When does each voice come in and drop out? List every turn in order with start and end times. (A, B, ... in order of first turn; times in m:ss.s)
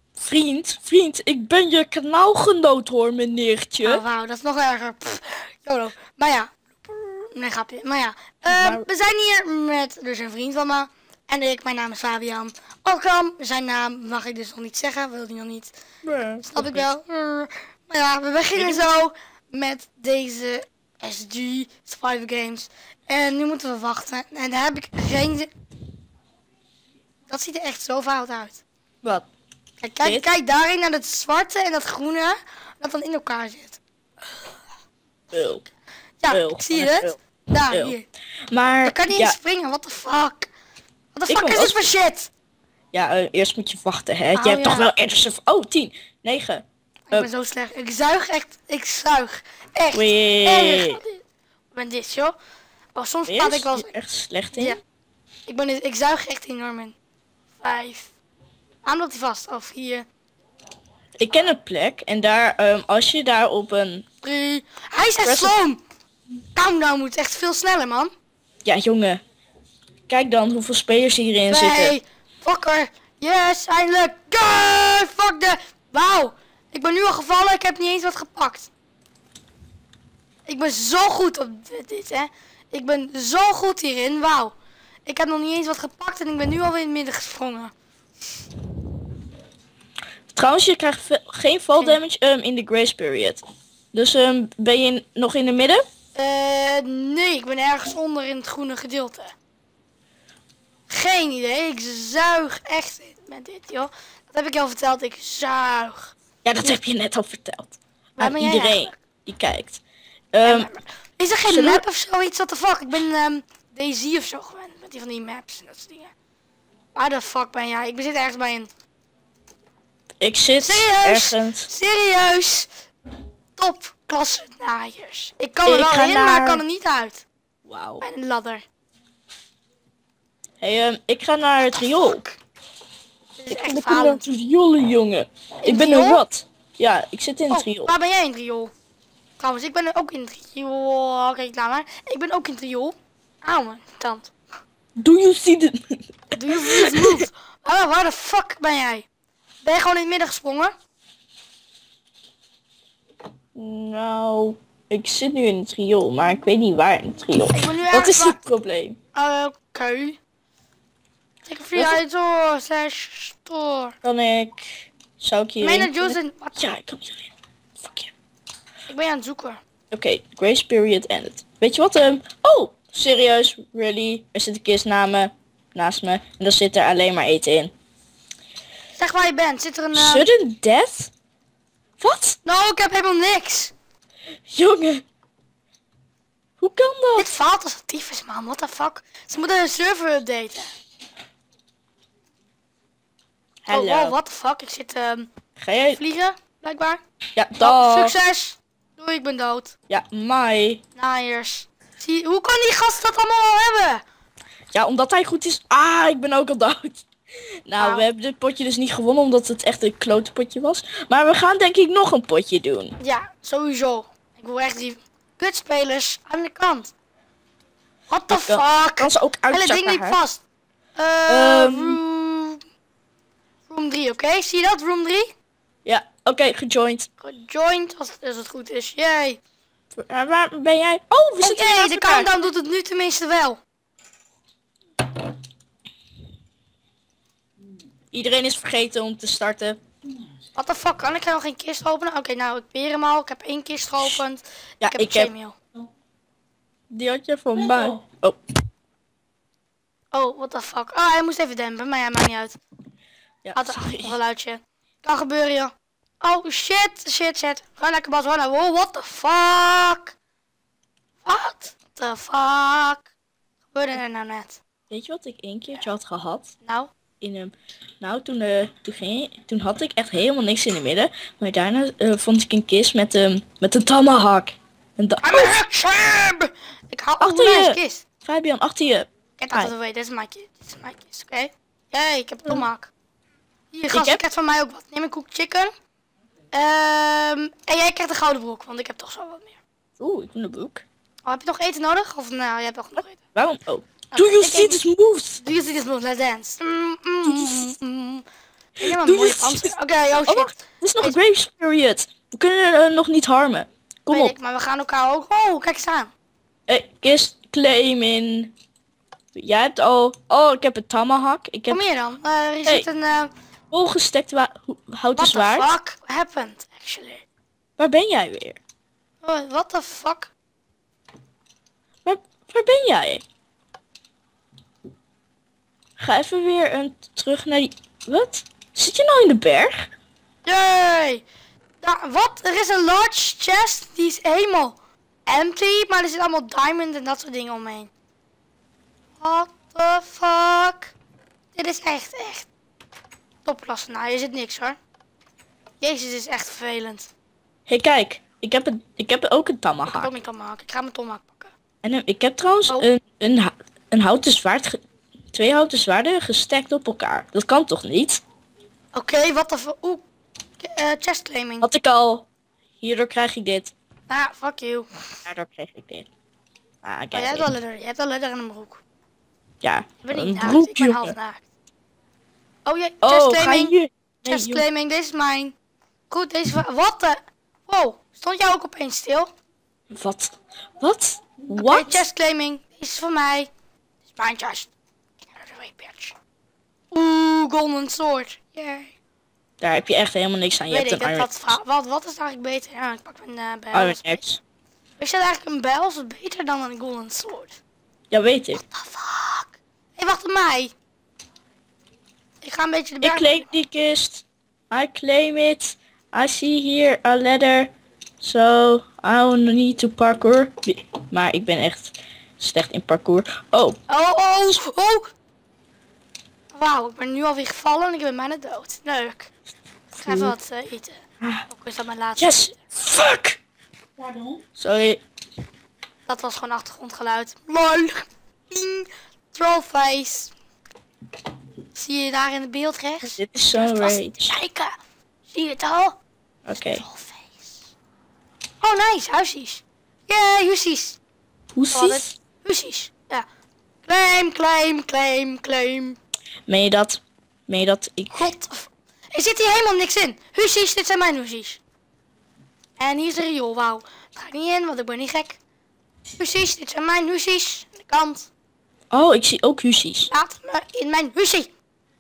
0:00.2-0:04.0 A
0:03.8-0:15.7 B
0:08.5-0:08.9 A
0:16.0-0:16.9 A
0:16.5-0:25.5 B
0:18.6-0:18.8 A
0:27.3-0:28.6 B
0:29.8-0:33.8 B
0:30.0-0:30.3 A
0:35.3-0:35.6 A
0:36.2-0:38.0 B
0:36.3-0:37.2 A
0:37.7-0:38.0 A
0:38.5-0:39.4 A
0:38.8-0:40.5 B
0:41.1-0:42.3 B
0:41.3-0:41.9 A
0:42.9-0:47.3 A
0:44.3-0:44.9 B
0:47.1-0:52.3 B
0:49.9-0:51.0 A
0:52.9-0:53.9 B
0:53.3-0:54.8 A
0:54.6-0:54.8 B
0:55.5-0:56.9 B
0:57.6-0:58.1 B
0:58.8-1:00.0 B
1:01.2-1:04.0 A
1:04.2-1:05.8 B
1:05.2-1:05.6 A
1:06.5-1:08.1 B
1:08.6-1:09.2 A
1:10.1-1:12.0 A
1:11.5-1:18.7 B
1:20.4-1:24.5 B
1:25.0-1:27.7 B
1:30.3-1:33.4 A
1:33.9-1:35.8 A
1:36.1-1:39.3 B
1:40.9-1:46.7 B
1:46.4-1:49.8 A
1:48.2-1:49.0 B
1:50.3-1:50.7 A
1:50.4-1:56.1 B
1:51.5-1:51.8 A
1:56.9-1:58.7 B
2:00.2-2:01.7 A
2:00.6-2:02.7 B
2:03.6-2:07.2 B
2:05.6-2:06.6 A
2:07.6-2:08.0 A
2:08.0-2:08.6 B
2:10.6-2:12.2 A
2:12.0-2:12.3 B
2:13.4-2:14.2 B
2:13.5-2:17.9 A
2:15.6-2:16.2 B
2:17.5-2:18.7 B
2:19.4-2:24.3 B
2:25.0-2:27.2 A
2:26.3-2:29.0 B
2:29.6-2:30.7 B
2:33.5-2:39.0 A
2:37.5-2:38.4 B
2:39.1-2:40.2 B
2:41.4-2:44.0 B
2:44.0-2:48.1 A
2:45.6-2:46.8 B
2:48.9-2:49.6 B
2:49.9-2:57.7 A
2:58.9-3:00.3 B
2:59.9-3:01.1 A
3:02.0-3:02.4 A
3:02.4-3:03.7 B
3:04.5-3:05.0 A
3:06.6-3:07.3 A
3:07.2-3:10.7 B
3:13.6-3:14.1 A
3:13.7-3:15.3 B
3:15.6-3:16.0 A
3:15.9-3:17.0 B
3:17.4-3:18.1 A
3:17.6-3:19.7 B
3:19.9-3:20.8 A
3:21.0-3:24.0 B
3:24.7-3:27.0 A
3:27.6-3:33.0 A
3:27.8-3:28.0 B
3:33.0-3:36.9 B
3:38.1-3:40.4 B
3:38.3-3:40.2 A
3:41.0-3:42.6 B
3:41.3-3:42.0 A
3:43.7-3:45.3 B
3:45.8-3:47.1 A
3:47.2-3:49.4 B
3:49.9-3:52.3 A
3:51.4-3:53.6 B
3:58.1-3:59.8 A
4:00.6-4:05.6 B
4:04.8-4:05.3 A
4:06.9-4:08.4 A
4:10.1-4:12.6 B
4:13.4-4:14.2 A
4:13.6-4:20.1 B
4:21.2-4:23.1 B
4:23.7-4:24.6 B
4:24.9-4:26.5 A
4:26.6-4:26.9 B
4:27.2-4:35.5 A
4:35.2-4:38.0 B
4:37.2-4:39.7 A
4:39.4-4:42.9 B
4:43.7-4:45.7 B
4:43.9-4:44.2 A
4:46.5-4:49.6 B
4:50.0-4:50.8 A
4:51.2-4:53.2 B
4:53.3-4:55.4 A
4:54.1-4:54.8 B
4:55.4-4:58.2 B
4:57.2-4:57.7 A
4:58.8-5:01.2 B
4:58.8-4:59.7 A
5:00.2-5:04.3 A
5:04.1-5:06.1 B
5:06.7-5:08.5 A
5:09.3-5:11.8 A
5:11.7-5:13.3 B
5:13.7-5:15.7 A
5:15.2-5:17.2 B
5:17.8-5:18.6 A
5:19.2-5:20.3 B
5:22.0-5:23.2 A
5:26.0-5:29.9 A
5:30.4-5:31.2 B
5:31.8-5:37.9 B
5:39.2-5:40.9 B
5:41.5-5:42.5 B
5:43.4-5:44.8 B
5:45.8-5:47.1 B
5:47.7-5:50.1 A
5:49.9-5:51.5 B
5:51.8-5:54.8 A
5:55.3-5:58.2 A
5:58.9-6:00.0 B
6:00.6-6:01.7 B
6:01.6-6:02.2 A
6:02.8-6:03.7 A
6:04.1-6:05.0 B
6:05.2-6:06.1 A
6:06.8-6:07.5 A
6:07.1-6:08.8 B
6:09.6-6:11.1 A
6:10.0-6:11.4 B
6:12.6-6:13.7 B
6:13.0-6:14.6 A
6:14.2-6:15.5 B
6:16.1-6:19.3 B
6:19.9-6:22.0 A
6:21.5-6:23.5 B
6:24.1-6:24.7 B
6:25.3-6:26.2 B
6:26.9-6:28.9 B
6:29.6-6:31.6 A
6:30.7-6:34.2 B
6:33.7-6:34.4 A
6:35.0-6:37.6 B
6:38.1-6:38.6 A
6:38.5-6:40.7 B
6:42.4-6:43.4 B
6:43.0-6:53.8 A
6:53.9-6:55.1 B
6:56.5-6:59.3 B
6:59.9-7:00.3 A
7:00.0-7:02.6 B
7:01.2-7:01.4 A
7:02.2-7:03.4 A
7:04.5-7:05.0 A
7:06.1-7:10.3 B
7:11.7-7:14.7 B
7:13.0-7:14.3 A
7:15.3-7:16.0 B
7:16.4-7:16.8 A
7:16.7-7:17.6 B
7:18.6-7:21.0 B
7:21.5-7:22.1 A
7:21.7-7:23.2 B
7:23.8-7:26.0 B
7:26.5-7:28.3 A
7:28.1-7:31.6 B
7:32.8-7:35.4 B
7:36.2-7:38.3 B
7:38.9-7:40.1 A
7:40.1-7:41.5 B